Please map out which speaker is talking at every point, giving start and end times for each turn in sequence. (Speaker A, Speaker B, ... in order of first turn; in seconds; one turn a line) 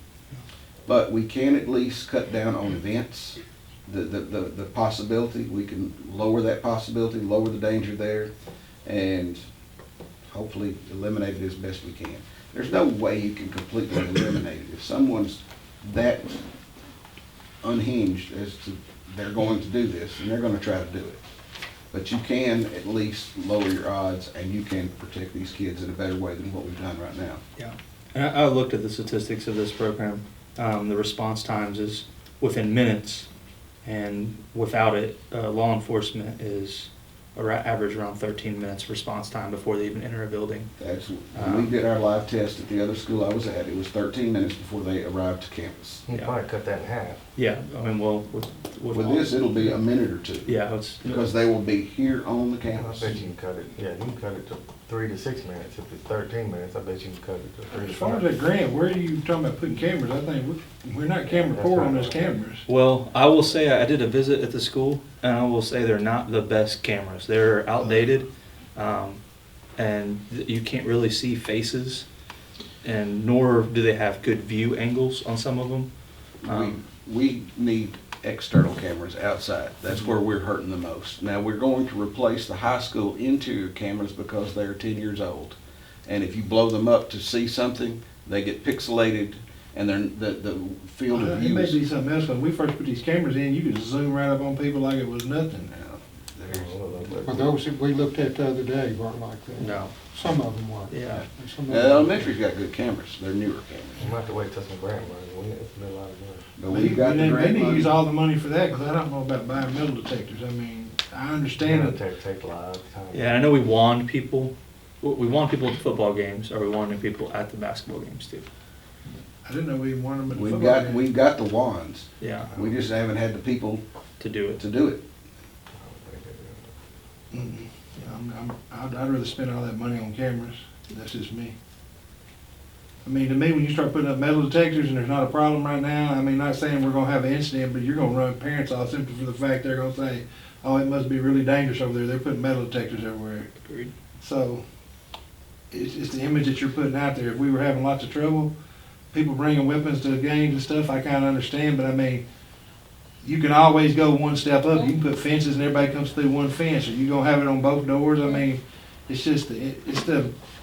Speaker A: 0.9-8.3
Speaker A: 8.8-9.4
Speaker A: 10.3-16.3
Speaker A: 17.6-21.2
Speaker A: 21.9-27.4
Speaker B: 27.6-33.3
Speaker B: 33.8-40.7
Speaker A: 40.8-46.0
Speaker B: 41.3-41.7
Speaker C: 46.0-47.2
Speaker B: 46.1-46.4
Speaker B: 47.3-49.4
Speaker A: 48.9-53.3
Speaker B: 50.5-51.2
Speaker C: 52.7-58.3
Speaker D: 57.7-62.6
Speaker C: 61.3-62.4
Speaker B: 62.7-69.2
Speaker B: 69.8-72.0
Speaker B: 72.8-75.9
Speaker A: 76.4-91.8
Speaker B: 76.4-76.8
Speaker D: 91.1-95.7
Speaker A: 95.7-96.8
Speaker C: 96.5-97.5
Speaker E: 97.2-102.4
Speaker B: 99.6-99.9
Speaker B: 100.9-101.2
Speaker A: 101.1-104.1
Speaker C: 104.0-106.5
Speaker A: 106.6-108.0
Speaker D: 106.7-112.0
Speaker C: 111.6-113.3
Speaker B: 113.1-118.5
Speaker D: 119.4-121.0
Speaker A: 120.3-123.8
Speaker B: 122.2-122.5
Speaker B: 124.2-124.6
Speaker A: 124.6-125.0
Speaker C: 125.7-126.7
Speaker D: 127.3-131.5
Speaker D: 133.0-143.5
Speaker B: 143.7-143.9
Speaker D: 144.2-144.6
Speaker D: 145.7-148.5
Speaker D: 149.1-152.2
Speaker D: 153.2-160.3